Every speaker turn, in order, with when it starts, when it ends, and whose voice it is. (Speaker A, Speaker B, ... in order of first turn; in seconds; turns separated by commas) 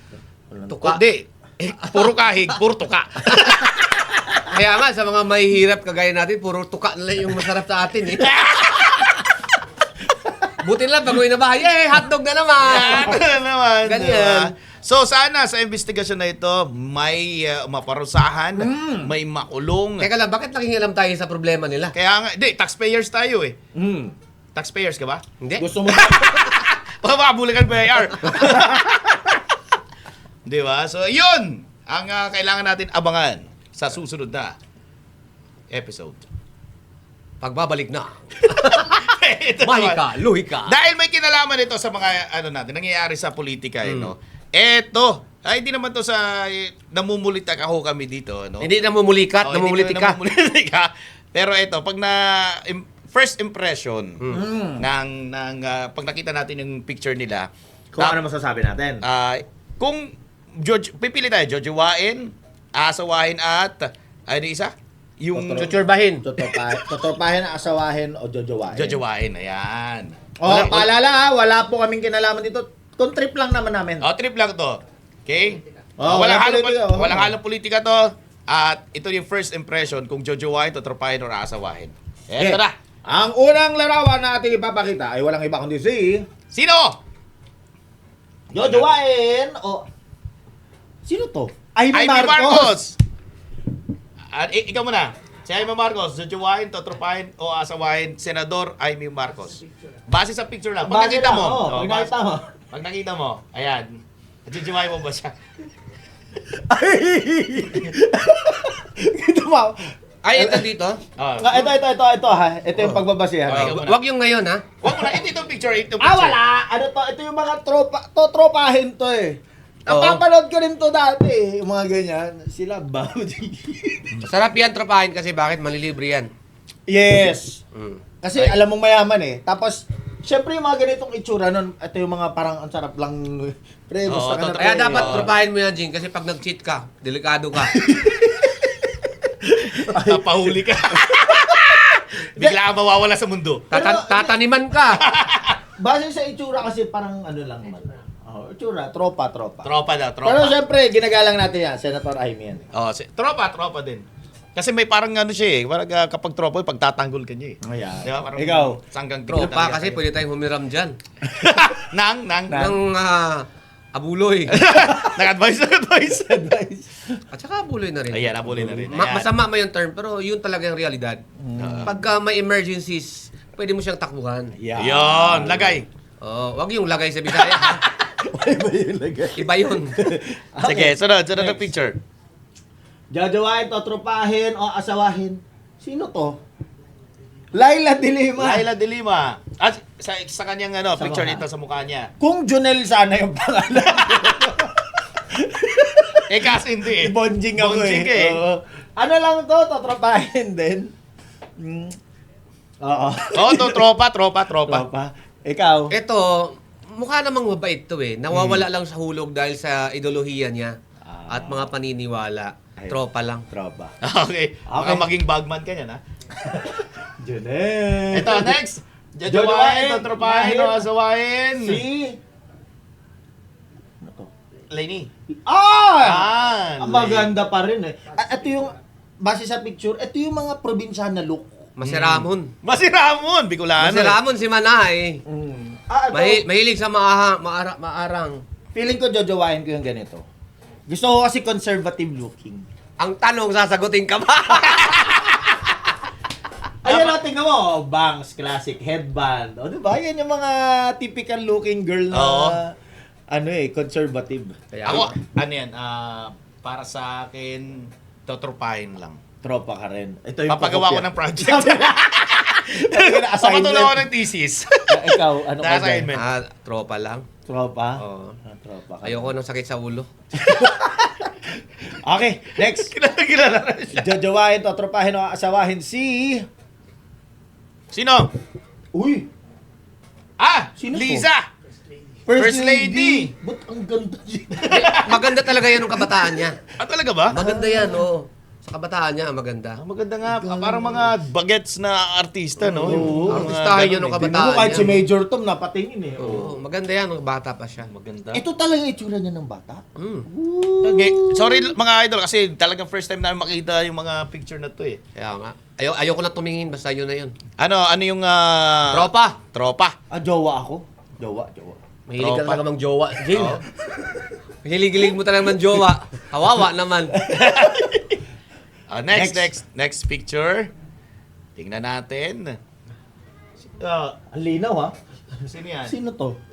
Speaker A: 0.5-0.9, Speaker B: 0.7-1.0, Speaker C: 0.8-3.7, Speaker B: 1.8-2.1, Speaker B: 3.2-3.6, Speaker B: 4.5-8.3, Speaker C: 8.2-9.2, Speaker A: 10.2-10.4, Speaker B: 10.6-13.2, Speaker C: 12.6-20.1, Speaker B: 13.8-14.5, Speaker A: 18.6-19.1, Speaker B: 20.0-21.9, Speaker C: 21.9-23.6, Speaker A: 23.7-24.1, Speaker C: 24.5-25.2, Speaker B: 25.4-25.7, Speaker A: 25.6-26.5, Speaker C: 25.9-29.4, Speaker A: 28.4-28.8, Speaker C: 30.4-34.5, Speaker C: 35.7-36.2, Speaker B: 37.4-40.7, Speaker C: 38.5-40.0, Speaker C: 40.6-48.7, Speaker B: 43.8-44.1, Speaker B: 48.6-50.2, Speaker C: 49.4-54.2, Speaker A: 54.3-54.9, Speaker C: 54.8-58.2, Speaker A: 57.9-59.0, Speaker C: 59.0-65.7, Speaker A: 65.3-69.0, Speaker B: 65.6-66.2, Speaker C: 68.7-70.9, Speaker A: 70.4-74.0, Speaker C: 74.0-82.7, Speaker A: 76.0-77.3, Speaker A: 82.3-86.2, Speaker C: 86.5-87.0, Speaker A: 88.5-89.8, Speaker C: 88.5-88.9, Speaker A: 91.0-92.8, Speaker C: 91.9-93.0, Speaker C: 94.3-102.1, Speaker A: 100.8-102.5, Speaker C: 102.7-105.3, Speaker A: 106.5-110.7, Speaker B: 110.2-111.0, Speaker C: 111.2-111.7, Speaker A: 111.4-113.8, Speaker B: 112.8-114.6, Speaker C: 113.5-114.0, Speaker C: 114.8-116.4, Speaker A: 116.0-124.1, Speaker B: 119.9-120.2, Speaker B: 124.2-126.3, Speaker A: 126.9-127.6, Speaker B: 127.7-128.0, Speaker A: 128.2-135.3, Speaker C: 134.1-135.3, Speaker B: 134.6-137.8, Speaker A: 137.9-138.2, Speaker A: 139.4-142.6, Speaker C: 139.6-143.7, Speaker B: 143.7-145.0, Speaker A: 143.7-144.4, Speaker C: 145.0-145.6, Speaker A: 145.8-149.7, Speaker C: 149.6-150.5, Speaker A: 150.2-152.6, Speaker C: 152.7-160.0, Speaker A: 157.6-158.8, Speaker B: 159.3-160.9, Speaker C: 161.3-162.7, Speaker A: 162.5-162.7, Speaker B: 162.5-164.6, Speaker C: 164.5-166.4, Speaker A: 164.7-165.2, Speaker A: 166.2-167.2, Speaker B: 167.3-171.2, Speaker C: 168.1-169.3, Speaker A: 168.5-168.9, Speaker A: 171.4-171.9, Speaker C: 171.6-171.9, Speaker B: 171.8-174.5, Speaker A: 174.5-175.8, Speaker C: 174.8-175.8, Speaker B: 176.2-177.8, Speaker A: 177.5-181.7, Speaker B: 179.3-180.0, Speaker C: 180.6-182.0, Speaker A: 183.1-186.4, Speaker A: 187.5-188.7, Speaker C: 188.4-192.1, Speaker A: 191.0-191.4, Speaker A: 192.2-200.9, Speaker C: 196.3-198.4, Speaker A: 201.6-202.0, Speaker A: 202.8-203.9, Speaker C: 203.3-204.8, Speaker A: 204.6-205.9, Speaker B: 205.9-210.8, Speaker C: 208.3-208.6, Speaker A: 211.0-211.7, Speaker B: 211.3-213.4, Speaker A: 212.8-213.9, Speaker C: 214.0-216.0, Speaker A: 214.7-215.1, Speaker A: 216.4-218.6, Speaker C: 218.1-221.8, Speaker A: 219.3-220.8, Speaker A: 221.6-222.2, Speaker A: 224.0-224.3, Speaker C: 224.7-225.1, Speaker A: 225.3-231.7, Speaker C: 226.0-227.3, Speaker B: 231.8-232.5, Speaker C: 231.8-234.2, Speaker B: 233.8-235.2, Speaker A: 235.3-236.5, Speaker B: 236.1-238.4, Speaker A: 238.7-240.2, Speaker A: 240.9-242.7, Speaker B: 243.0-245.2, Speaker C: 246.8-247.2, Speaker A: 246.8-252.7, Speaker C: 252.1-252.6, Speaker A: 253.3-255.0, Speaker B: 254.7-255.1, Speaker C: 254.8-259.2, Speaker A: 259.4-264.1, Speaker C: 260.5-266.2, Speaker A: 264.9-266.1, Speaker B: 266.1-267.3, Speaker A: 267.5-269.3, Speaker B: 268.0-268.4, Speaker B: 269.0-270.1, Speaker A: 270.3-272.9, Speaker C: 272.7-274.2, Speaker A: 273.9-276.5, Speaker C: 277.9-278.3, Speaker A: 278.9-279.3, Speaker C: 280.4-281.5, Speaker A: 280.8-281.3, Speaker A: 282.3-285.1, Speaker C: 282.4-283.3, Speaker C: 284.6-285.2, Speaker B: 284.7-286.6, Speaker C: 286.8-287.4, Speaker B: 287.3-289.8, Speaker A: 287.3-288.0, Speaker C: 289.8-294.3, Speaker A: 290.3-291.1, Speaker A: 292.7-293.5, Speaker B: 292.8-295.0, Speaker A: 294.2-296.6, Speaker B: 296.2-297.9, Speaker C: 297.9-298.4, Speaker A: 298.3-301.7, Speaker B: 300.0-300.3, Speaker C: 300.8-305.0, Speaker B: 305.1-307.3, Speaker C: 307.6-309.9, Speaker B: 308.9-309.4, Speaker A: 310.1-311.8, Speaker B: 312.1-313.6, Speaker C: 312.2-312.6, Speaker C: 313.3-313.6, Speaker B: 314.6-317.2, Speaker A: 317.2-317.9, Speaker C: 317.3-318.2, Speaker C: 318.9-320.7, Speaker A: 319.1-319.5, Speaker C: 321.6-322.6, Speaker C: 323.8-324.2, Speaker A: 324.3-324.9, Speaker C: 325.4-325.9, Speaker A: 325.9-326.4